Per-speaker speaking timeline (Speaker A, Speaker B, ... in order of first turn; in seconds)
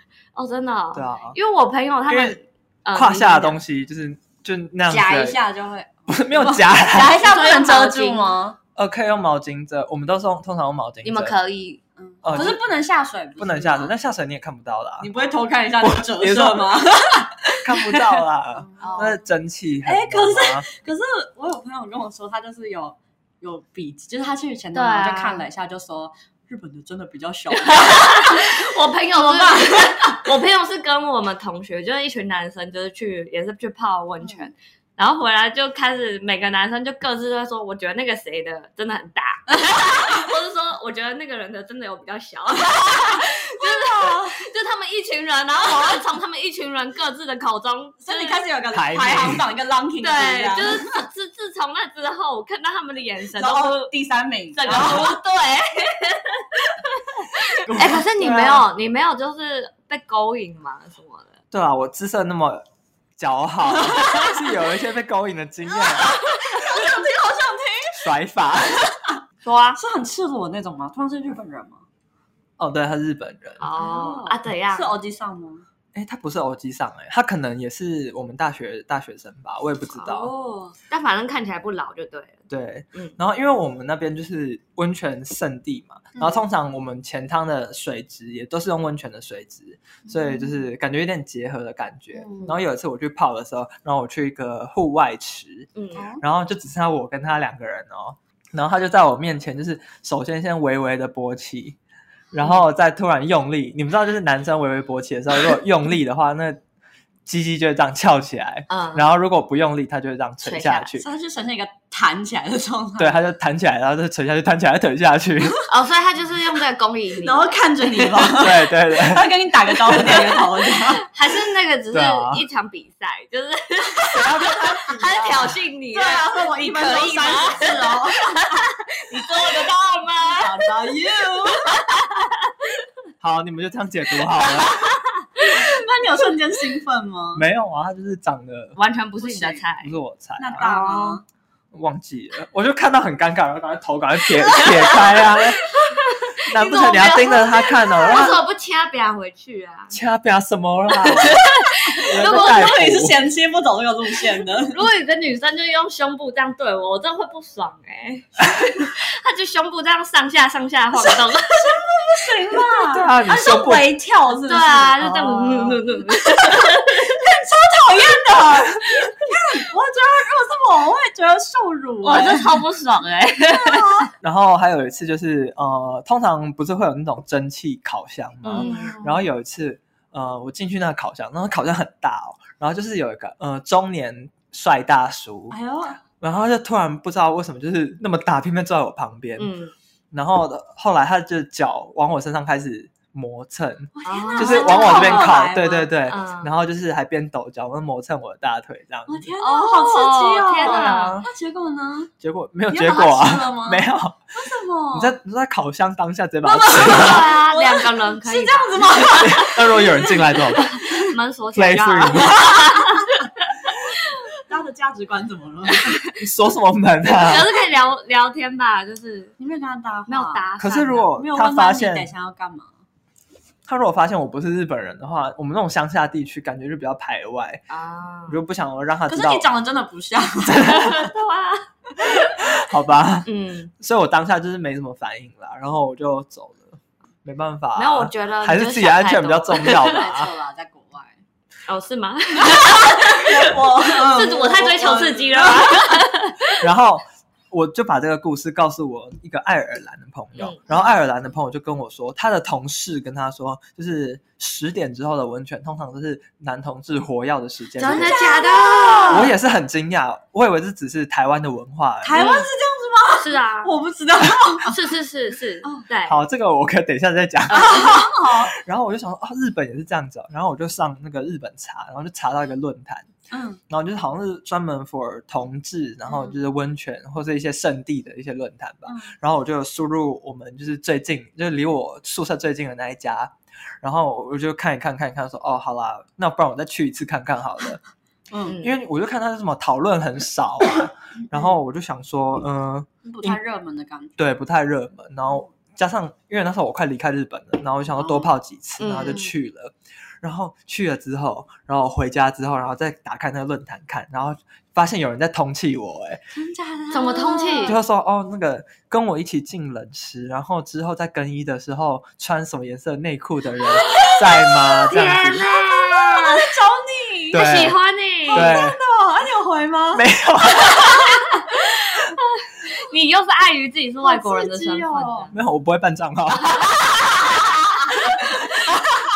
Speaker A: 0.3-3.6, 7.2-8.3, 11.0-11.8, 18.8-19.2, 24.7-25.4, 27.5-48.4, 50.0-53.9, 54.5-61.4, 69.4-69.8, 73.6-74.9, 80.9-83.2, 95.8-96.1, 108.7-109.0, 110.4-110.9, 115.7-118.2, 120.0-130.6, 131.6-132.6, 134.7-135.8, 138.8-139.9, 140.6-141.2, 144.6-150.0, 150.9-152.7, 154.6-161.8, 164.5-167.2, 172.0-174.1, 178.5-178.9, 189.4-189.7, 194.0-195.4, 196.0-196.5, 199.4-201.2, 206.7-209.7, 210.5-214.1, 217.0-219.3, 220.1-221.1, 227.7-228.4, 230.6-232.6, 233.2-233.7, 237.7-240.0, 241.7-246.6, 250.4-250.6, 257.8-259.3, 262.1-262.5, 263.2-263.7, 264.6-266.2, 267.5-268.0, 288.5-288.7, 298.8-299.3, 306.9-307.8, 314.9-316.5, 317.3-318.6, 321.2-325.3, 328.2-328.5
Speaker B: 0.9-1.4, 2.1-2.4, 2.9-5.4, 6.1-7.2, 8.8-11.3, 12.2-12.7, 13.4-15.1, 15.8-16.8, 17.6-20.6, 48.7-49.5, 58.2-58.6, 61.5-62.6, 63.2-66.9, 67.9-68.9, 72.6-73.6, 75.9-80.3, 82.5-95.7, 96.2-101.8, 102.3-106.6, 107.2-111.1, 113.0-115.6, 118.3-120.2, 121.9-122.4, 124.1-124.8, 133.2-134.9, 137.3-138.8, 139.8-140.7, 141.7-145.7, 146.4-148.4, 149.9-151.5, 152.0-153.2, 162.9-163.9, 174.2-185.6, 186.1-189.5, 190.1-199.3, 200.6-201.3, 202.2-204.2, 204.9-207.3, 209.1-210.9, 211.5-212.6, 216.2-217.5, 220.6-222.1, 223.7-227.6, 228.3-229.5, 230.4-231.1, 232.4-240.3, 246.6-258.2, 259.1-262.3, 266.1-273.1, 273.7-287.8, 288.6-293.4, 294.2-306.2, 307.6-315.5, 317.3-317.8, 318.3-318.8, 319.9-321.2, 325.3-326.7
Speaker C: 4.9-8.6, 12.0-13.9, 15.0-18.0, 18.5-19.2, 19.8-30.3, 34.2-34.5, 42.6-44.4, 45.6-46.0, 48.0-51.0, 53.3-55.2, 57.4-58.0, 63.8-64.6, 65.7-68.1, 68.7-69.2, 69.8-71.8, 73.7-75.6, 80.0-80.8, 86.1-86.4, 90.0-90.6, 92.1-92.6, 95.9-96.2, 111.0-113.2, 117.2-121.1, 124.1-128.6, 130.2-131.8, 135.4-137.4, 139.2-139.6, 140.4-141.2, 151.2-154.8, 161.1-172.6, 173.5-174.1, 178.4-179.3, 185.5-186.0, 193.9-195.9, 199.1-202.1, 202.7-205.2, 206.4-210.9, 212.3-212.9, 214.3-216.0, 219.4-220.5, 221.1-222.7, 229.1-230.8, 239.6-241.2, 242.4-246.0, 257.8-259.3, 262.0-264.9, 267.5-268.5, 273.3-273.6, 278.9-279.2, 288.3-288.6, 291.2-291.5, 293.0-294.1, 298.0-298.3, 299.0-299.3, 306.3-307.8, 313.9-314.2, 315.8-317.5, 318.3-320.1, 324.0-325.3